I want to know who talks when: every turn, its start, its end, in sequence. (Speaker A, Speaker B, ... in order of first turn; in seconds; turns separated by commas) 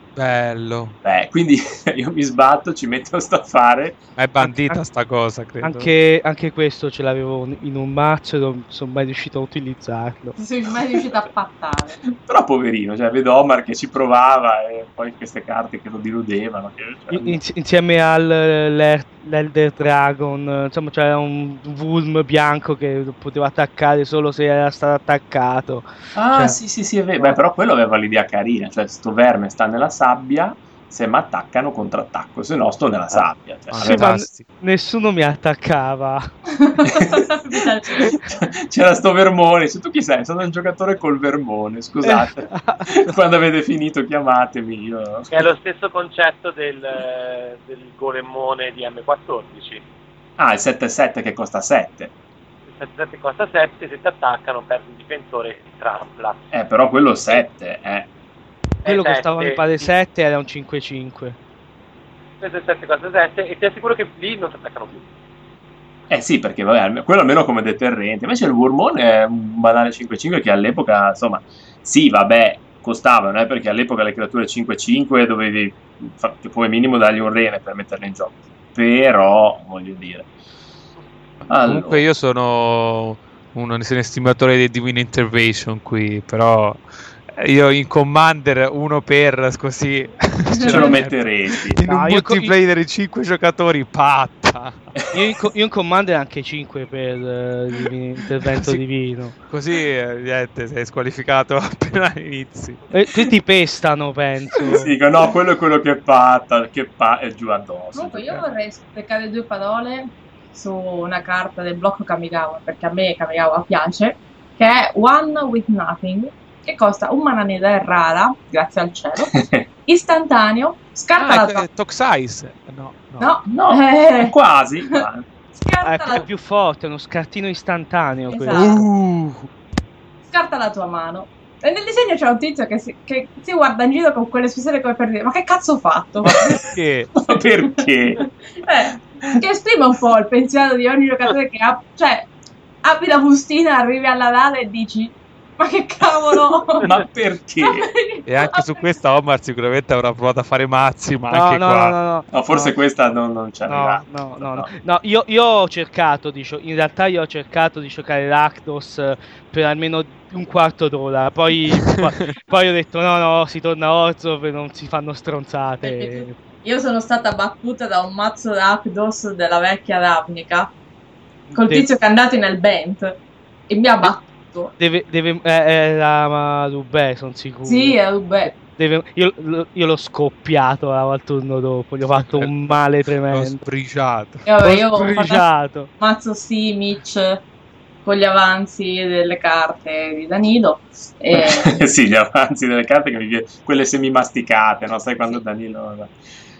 Speaker A: 0.1-0.9, Speaker B: 1.0-4.0, Speaker A: 4.2-5.9, Speaker C: 4.4-4.8, Speaker C: 5.6-10.4, Speaker D: 10.4-12.0, Speaker B: 12.1-17.4, Speaker C: 17.1-26.6, Speaker B: 26.1-34.1, Speaker A: 33.7-34.5, Speaker C: 33.8-36.3, Speaker D: 36.6-38.1, Speaker B: 36.8-37.3, Speaker B: 38.0-45.5, Speaker C: 42.0-43.1, Speaker E: 45.3-49.8, Speaker B: 50.4-52.1, Speaker E: 52.7-56.5, Speaker B: 56.5-58.1, Speaker E: 58.8-59.7, Speaker C: 58.8-61.4, Speaker E: 62.4-65.0, Speaker B: 66.1-80.3, Speaker B: 81.5-82.0, Speaker A: 81.6-94.8, Speaker D: 90.5-91.0, Speaker B: 90.7-91.8, Speaker C: 91.8-92.5, Speaker C: 95.1-99.3, Speaker A: 99.5-102.8, Speaker C: 102.9-104.9, Speaker B: 104.7-108.4, Speaker D: 107.9-121.7, Speaker B: 119.3-119.6, Speaker A: 121.2-123.4, Speaker D: 123.2-124.3, Speaker B: 123.5-125.3, Speaker D: 125.5-126.3, Speaker C: 125.8-128.8, Speaker D: 128.3-128.8, Speaker A: 128.5-129.5, Speaker D: 130.3-136.6, Speaker B: 136.3-136.6, Speaker A: 136.5-137.1, Speaker B: 137.2-138.3, Speaker D: 138.2-142.3, Speaker D: 142.8-146.9, Speaker B: 146.8-147.9, Speaker D: 147.6-148.9, Speaker A: 148.3-152.0, Speaker C: 151.3-152.8, Speaker B: 152.3-154.7, Speaker C: 153.7-166.4, Speaker D: 165.8-170.7, Speaker C: 171.5-171.9, Speaker D: 171.5-174.7, Speaker C: 174.8-183.6, Speaker D: 177.7-178.6, Speaker A: 182.2-184.6, Speaker D: 184.4-187.4, Speaker C: 184.6-185.9, Speaker D: 188.0-191.8, Speaker B: 191.3-196.1